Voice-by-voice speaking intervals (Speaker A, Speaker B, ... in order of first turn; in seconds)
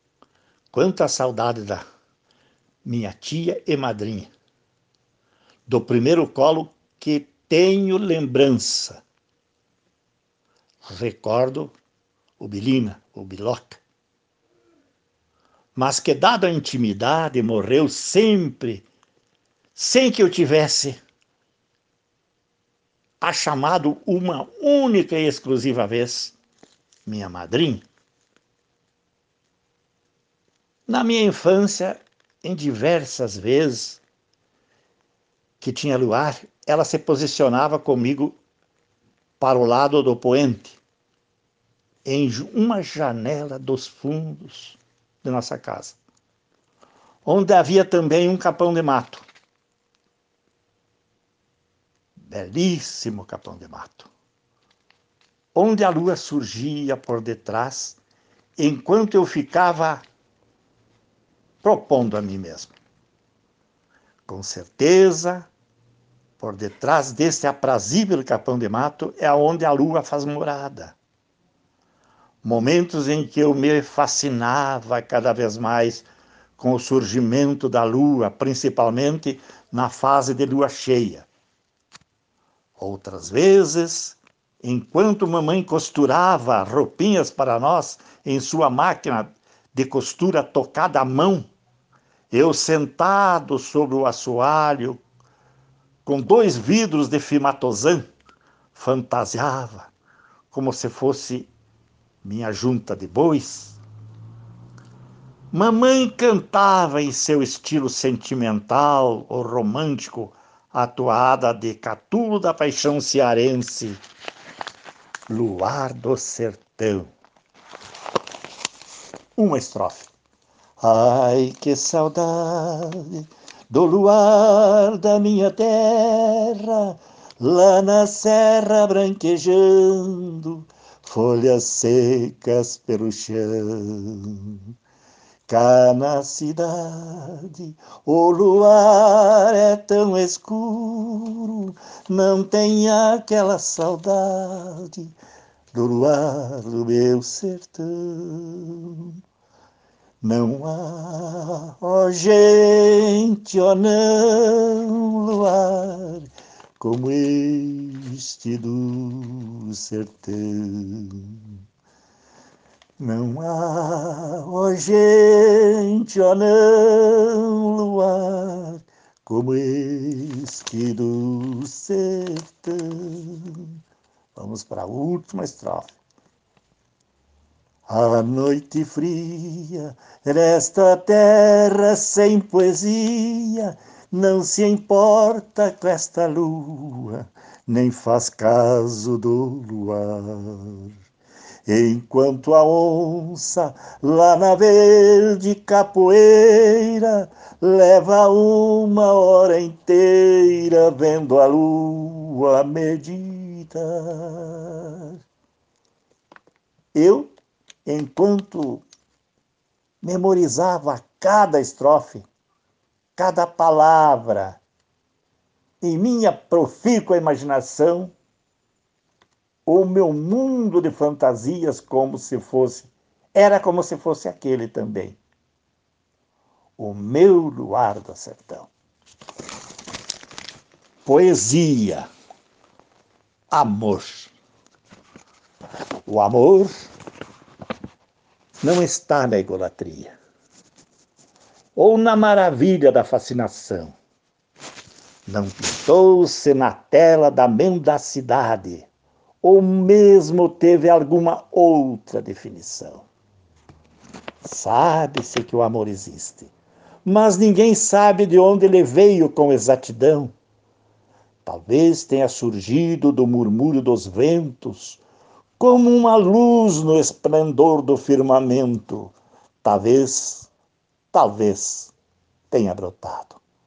Speaker A: 0.7-1.8, 2.8-4.3, 5.7-9.0, 10.8-11.8, 12.4-13.8, 15.7-18.9, 19.7-21.0, 23.2-26.4, 27.1-27.8, 30.9-34.0, 35.6-38.4, 39.4-40.8, 42.0-46.0, 47.2-49.2, 52.1-54.1, 55.5-58.0, 58.6-60.0, 61.6-62.7, 64.2-65.5, 66.4-71.0, 72.4-76.1, 76.6-81.3, 82.8-91.5, 92.3-95.0, 96.0-98.1, 98.7-99.9, 100.5-101.5, 102.2-103.8, 105.5-114.0, 115.3-117.1, 119.3-120.1, 120.8-134.7, 135.5-145.1, 145.7-149.2, 150.2-161.5, 163.0-173.8, 174.3-175.9, 177.9-190.9, 191.7-205.2, 206.9-207.3, 207.8-208.8, 210.0-212.2, 213.2-214.6, 215.8-218.1, 219.7-225.2, 226.8-228.7, 231.0-232.1, 233.5-234.3, 236.0-236.9, 238.6-240.2, 241.8-244.0, 245.2-248.9, 249.4-253.1, 254.4-256.5, 257.0-260.3, 261.4-265.0, 265.6-270.5, 271.1-271.9, 272.5-273.4